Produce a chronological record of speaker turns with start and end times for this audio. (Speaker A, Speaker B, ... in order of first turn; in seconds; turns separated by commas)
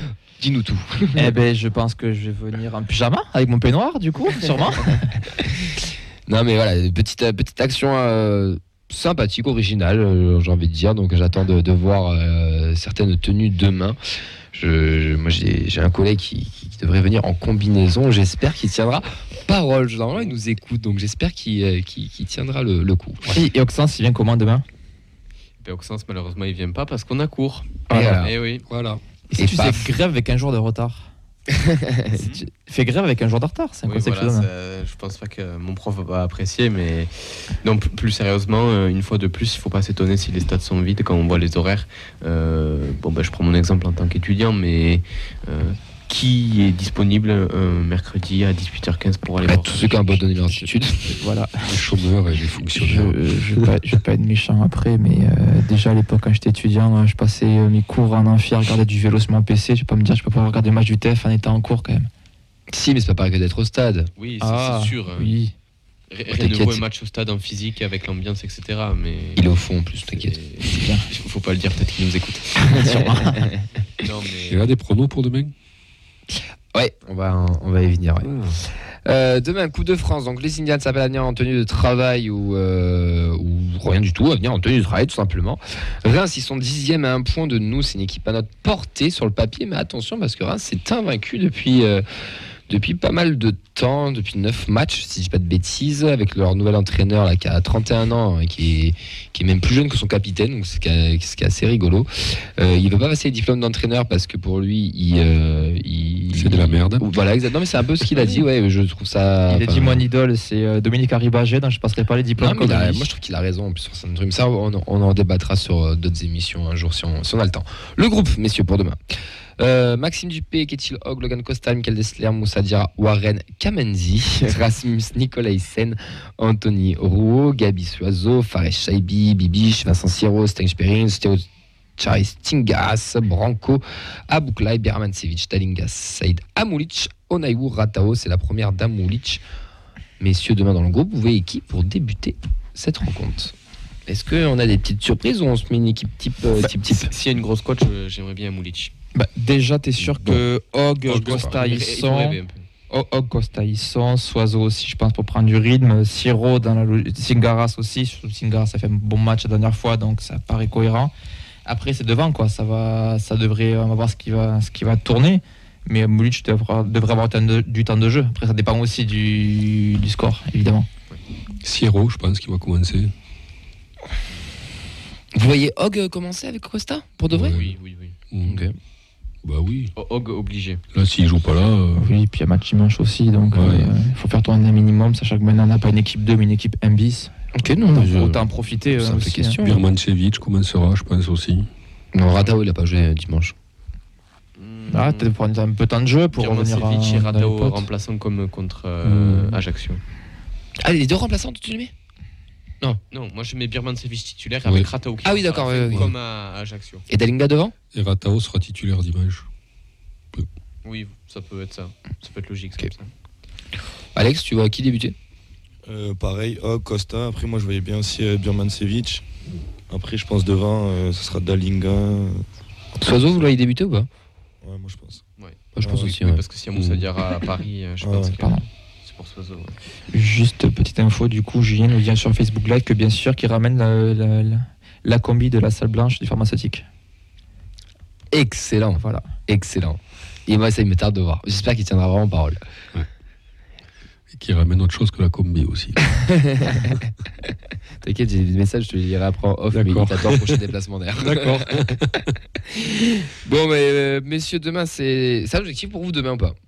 Speaker A: 0.4-1.3, Speaker B: 1.1-5.2, Speaker A: 6.3-14.0, Speaker A: 14.5-23.2, Speaker B: 23.3-24.6, Speaker C: 25.6-28.6, Speaker B: 27.9-28.2, Speaker A: 27.9-28.3, Speaker D: 28.7-29.0, Speaker A: 29.3-29.9, Speaker B: 29.3-31.1, Speaker A: 31.5-32.1, Speaker C: 32.1-32.4, Speaker B: 32.1-34.5, Speaker C: 33.8-37.1, Speaker C: 37.6-50.0, Speaker A: 49.4-51.2, Speaker B: 50.5-51.8, Speaker D: 51.6-53.2, Speaker B: 52.6-62.1, Speaker A: 62.7-64.1, Speaker C: 64.2-65.3, Speaker B: 64.4-65.5, Speaker C: 66.1-69.5, Speaker A: 66.3-66.8, Speaker A: 69.3-70.4, Speaker C: 70.0-72.7, Speaker B: 70.7-71.0, Speaker B: 72.6-73.5, Speaker C: 74.0-74.6, Speaker D: 74.5-75.5, Speaker A: 76.7-78.3, Speaker D: 78.2-78.6, Speaker A: 79.0-92.0, Speaker A: 92.7-110.0, Speaker D: 106.3-107.0, Speaker B: 109.5-113.1, Speaker A: 112.4-119.0, Speaker A: 119.6-131.4, Speaker A: 132.0-139.4, Speaker A: 140.2-143.5, Speaker A: 144.1-147.1, Speaker C: 146.6-148.9, Speaker B: 149.1-161.1, Speaker C: 151.1-152.6, Speaker A: 151.2-151.6, Speaker B: 161.7-170.9, Speaker D: 171.6-173.1, Speaker A: 175.3-177.6, Speaker D: 177.3-177.7, Speaker C: 177.5-178.2, Speaker D: 178.3-178.6, Speaker A: 178.4-178.7, Speaker D: 179.4-179.9, Speaker C: 179.9-180.8, Speaker D: 180.9-182.1, Speaker B: 182.0-187.3, Speaker D: 183.5-183.9, Speaker A: 187.5-188.2, Speaker B: 187.9-189.6, Speaker D: 187.9-188.4, Speaker A: 188.9-189.8, Speaker D: 189.6-191.7, Speaker A: 192.1-193.5, Speaker C: 194.6-195.3, Speaker B: 194.9-197.8, Speaker C: 196.3-200.0, Speaker D: 199.0-199.6, Speaker A: 200.8-201.9, Speaker C: 203.1-207.0, Speaker A: 205.2-206.1, Speaker A: 207.1-207.7, Speaker D: 207.9-209.5, Speaker C: 210.8-213.1, Speaker A: 214.1-215.1, Speaker E: 215.8-219.2, Speaker E: 219.9-222.4, Speaker A: 223.0-224.1, Speaker E: 224.6-225.2, Speaker C: 225.4-229.8, Speaker A: 225.7-226.4, Speaker E: 225.8-226.1, Speaker D: 226.7-227.1, Speaker E: 228.0-228.3, Speaker B: 228.4-228.6, Speaker B: 230.1-236.8, Speaker A: 238.3-242.6, Speaker B: 239.0-239.2, Speaker D: 244.3-246.1, Speaker A: 246.2-247.0, Speaker A: 248.0-251.9, Speaker D: 249.7-250.6, Speaker D: 251.2-252.3, Speaker A: 252.7-256.5